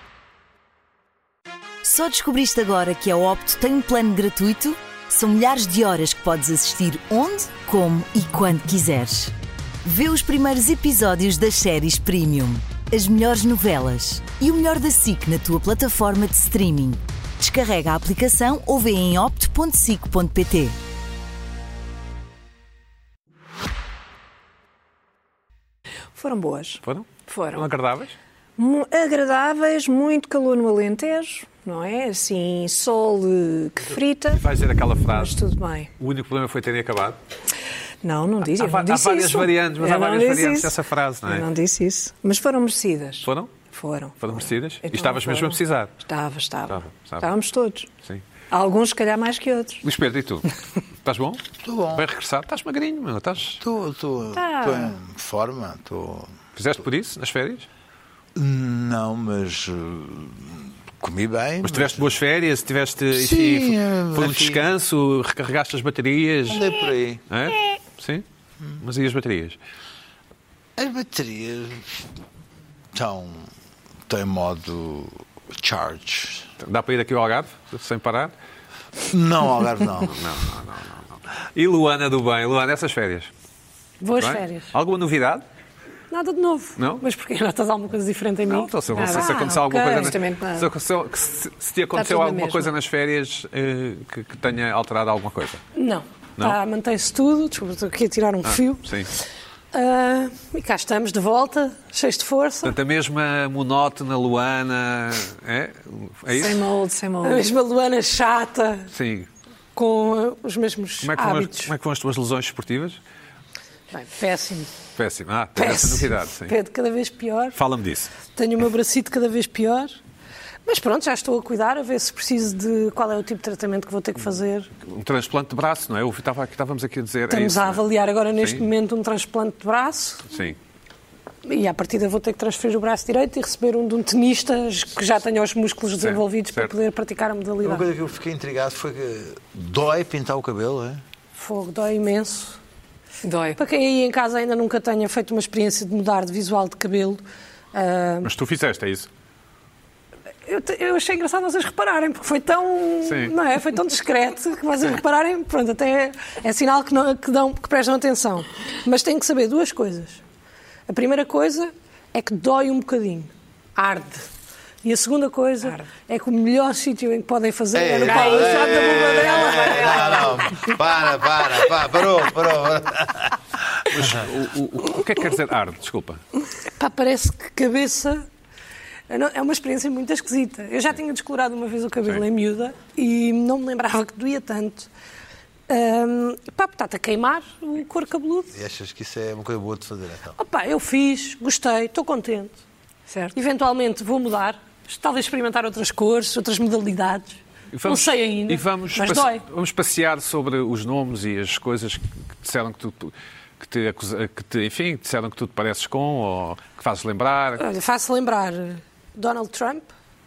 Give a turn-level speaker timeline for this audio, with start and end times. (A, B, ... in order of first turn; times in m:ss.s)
0:01.8-0:20.8 A
0:26.1-0:27.7 B
0:26.8-0:28.2 C
0:28.6-0:35.9 B
0:34.3-0:35.4 C
0:36.0-0:37.2 C
0:38.0-0:47.9 B
0:38.4-0:41.5 C
0:43.2-0:43.5 C
0:44.2-0:46.0 C
0:46.7-0:47.3 C
0:48.5-0:49.8 B
0:49.8-0:53.6 C
0:51.6-0:52.0 D
0:53.6-0:56.4 D
0:54.3-0:55.0 B
0:56.6-0:57.7 C
0:58.4-1:02.2 D
1:01.6-1:06.7 C
1:03.1-1:04.7 D
1:06.5-1:07.2 D
1:07.3-1:08.2 C
1:08.8-1:09.6 C
1:10.8-1:11.9 D
1:12.9-1:13.5 D
1:14.1-1:16.5 D
1:16.6-1:18.4 C
1:19.1-1:20.2 D
1:20.1-1:23.3 C
1:24.0-1:24.7 E
1:24.2-1:25.4 C
1:26.1-1:30.1 E
1:26.8-1:27.0 C
1:28.5-1:35.6 C
1:28.9-1:30.7 B
1:31.9-1:32.7 B
1:35.8-1:39.2 E
1:38.4-1:39.1 C
1:39.7-1:42.8 E
1:42.6-1:46.6 C
1:46.3-1:47.5 B
1:47.2-1:48.9 E
1:48.9-1:49.3 C
1:49.8-1:51.7 E
1:51.0-1:53.0 C
1:53.9-1:54.7 E
1:55.0-1:56.6 C
1:55.6-1:57.6 E
1:57.5-1:58.1 C
1:58.2-2:00.0 E
2:00.6-2:04.7 E
2:04.8-2:08.7 C
2:07.3-2:10.3 E
2:10.3-2:10.6 C
2:11.5-2:17.8 E
2:16.0-2:16.7 C
2:17.6-2:21.0 D
2:21.4-2:22.6 E
2:23.2-2:23.6 B
2:23.6-2:27.2 E
2:27.7-2:28.3 E
2:28.2-2:29.1 C
2:30.5-2:40.2 E
2:33.0-2:33.3 C
2:40.9-2:44.2 E
2:44.8-2:50.4 E
2:47.7-2:53.4 D
2:48.0-2:50.4 B
2:53.9-2:56.2 C
2:56.8-2:58.2 E
2:59.1-3:04.9 E
3:05.7-3:08.5 E
3:08.5-3:10.4 D
3:10.4-3:12.6 E
3:13.1-3:13.4 B
3:13.3-3:19.4 E
3:17.7-3:27.6 C
3:27.6-3:29.9 E